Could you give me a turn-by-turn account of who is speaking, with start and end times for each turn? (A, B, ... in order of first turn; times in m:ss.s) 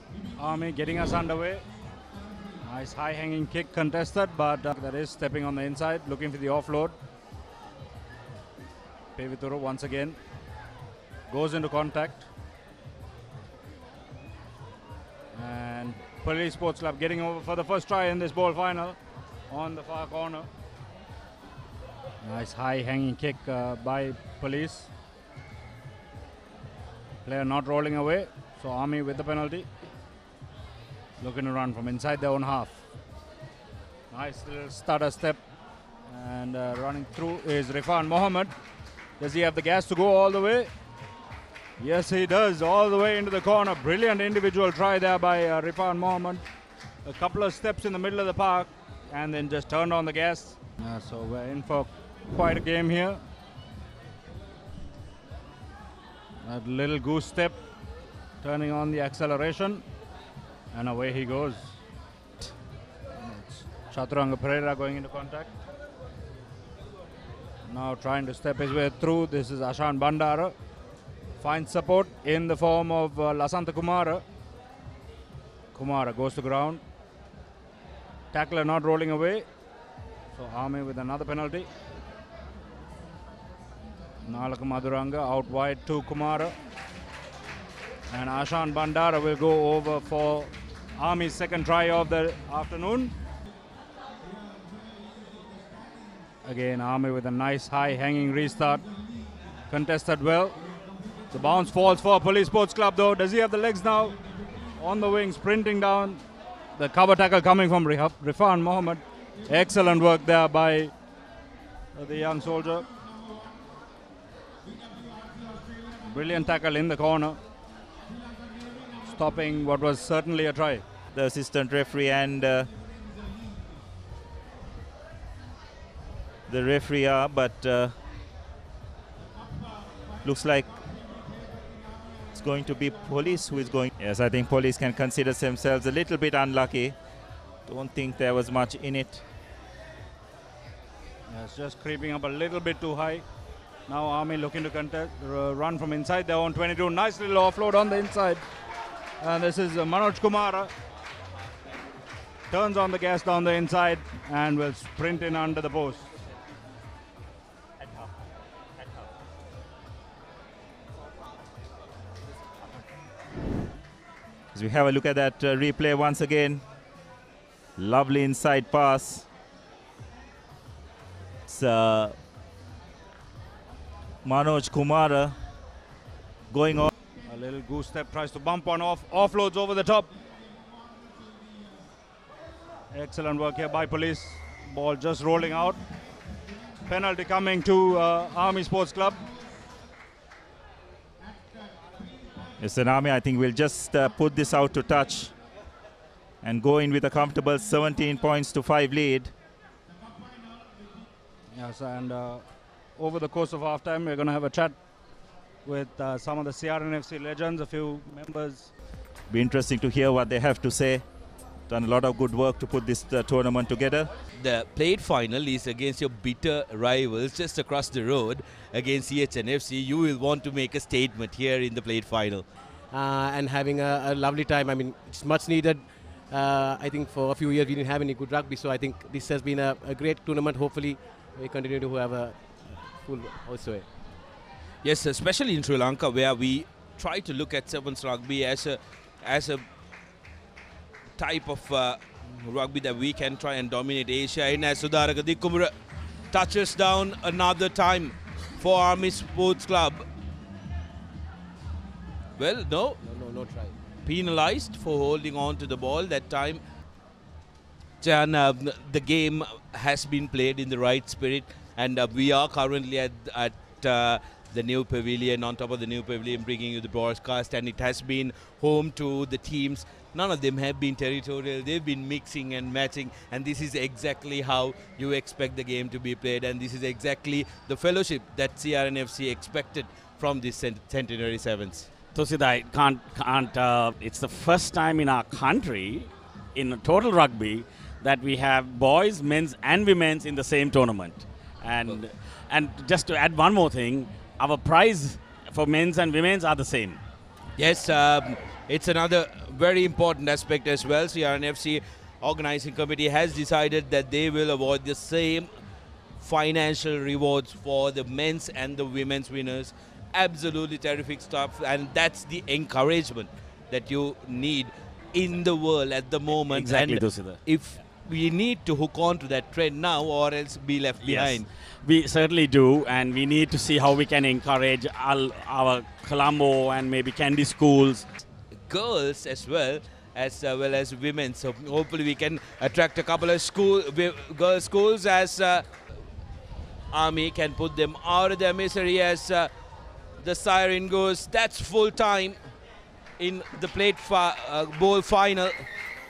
0:00.4-0:01.6 A
0:02.6-0:07.0 A
0:09.2-0:10.2 A
0:11.3-0:12.3 A
0:15.3-0:19.0 A
0:19.5-0:20.5 A
0:22.2-0:24.9 A
0:27.2-0:29.7 A
0:31.2-0:32.8 A
0:34.1-0:35.4 A
0:36.1-0:38.5 A
0:39.2-0:40.7 A
0:41.8-0:46.4 A
0:47.0-0:53.2 A
0:56.4-0:57.6 A
0:58.4-0:59.8 A
1:00.7-1:01.8 A
1:03.2-1:05.5 A
1:07.7-1:10.5 A
1:11.4-1:14.2 A
1:15.7-1:16.8 A
1:18.3-1:19.5 A
1:20.3-1:21.7 A
1:24.2-1:26.5 A
1:28.1-1:33.1 A
1:36.4-1:38.9 A
1:39.7-1:40.6 A
1:41.3-1:44.2 A
1:44.8-1:46.2 A
1:46.8-1:50.9 A
1:52.0-1:52.9 A
1:56.1-1:57.4 A
1:59.0-2:00.8 A
2:01.1-2:02.7 B
2:06.5-2:08.0 B
2:10.2-2:10.7 B
2:12.3-2:17.0 B
2:17.7-2:19.2 B
2:21.3-2:23.2 A
2:23.9-2:28.4 A
2:29.2-2:30.7 A
2:32.5-2:36.1 A
2:44.5-2:46.6 B
2:47.8-2:49.3 B
2:51.5-2:52.2 B
2:54.2-2:55.4 B
2:56.5-2:56.9 B
2:57.3-3:00.1 A
3:02.9-3:05.8 A
3:06.8-3:09.2 A
3:12.6-3:15.3 B
3:16.4-3:19.3 B
3:21.6-3:22.4 A
3:23.0-3:24.8 A
3:25.6-3:28.7 A
3:29.3-3:31.0 B
3:31.7-3:34.1 B
3:34.4-3:42.5 C
3:42.9-3:54.0 D
3:54.8-3:59.6 C
4:01.2-4:05.7 C
4:06.3-4:10.0 C
4:12.4-4:13.0 C
4:13.0-4:13.8 D
4:14.0-4:16.6 C
4:18.0-4:41.9 C
4:42.2-4:57.0 E
4:57.6-5:05.5 C
5:06.2-5:21.5 C
5:16.4-5:17.4 E
5:21.0-5:28.0 E
5:28.7-5:35.7 C
5:36.9-5:39.5 C
5:40.2-5:42.4 C
5:43.2-5:45.6 C